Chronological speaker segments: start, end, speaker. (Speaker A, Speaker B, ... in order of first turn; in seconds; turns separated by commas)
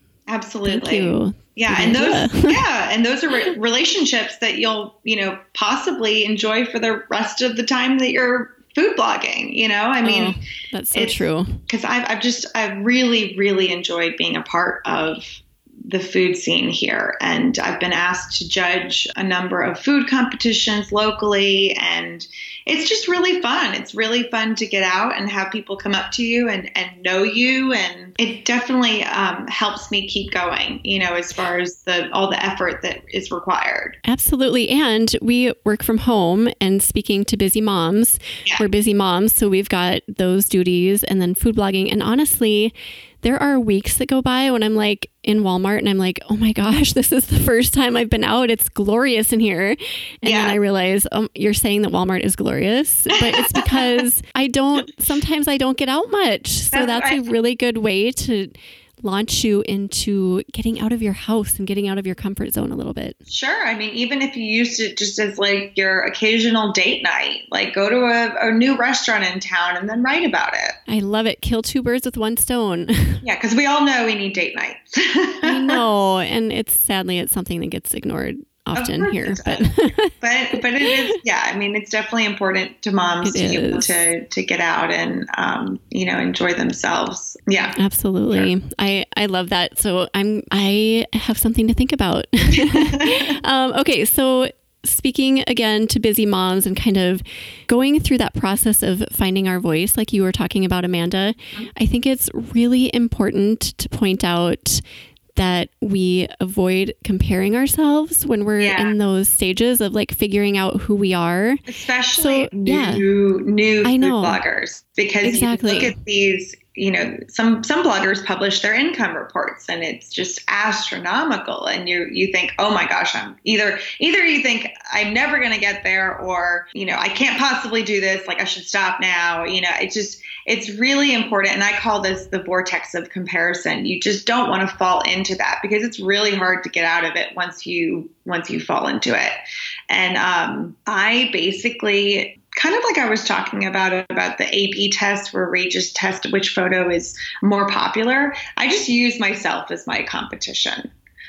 Speaker A: 0.3-10.4, Speaker B: 0.6-2.6, Speaker B: 10.0-11.6, Speaker A: 10.9-34.0, Speaker B: 34.0-63.2, Speaker A: 50.2-50.6, Speaker A: 53.2-54.0, Speaker A: 56.7-57.3, Speaker A: 63.3-70.8, Speaker B: 70.9-73.2, Speaker A: 73.2-76.0, Speaker B: 75.4-81.1, Speaker A: 78.8-87.8, Speaker B: 83.2-84.1, Speaker B: 87.8-104.8, Speaker A: 92.5-93.3, Speaker B: 105.3-111.6, Speaker A: 108.6-109.0, Speaker A: 111.7-139.4, Speaker B: 112.1-113.0, Speaker B: 113.8-114.4, Speaker B: 115.2-116.0, Speaker A: 139.9-150.9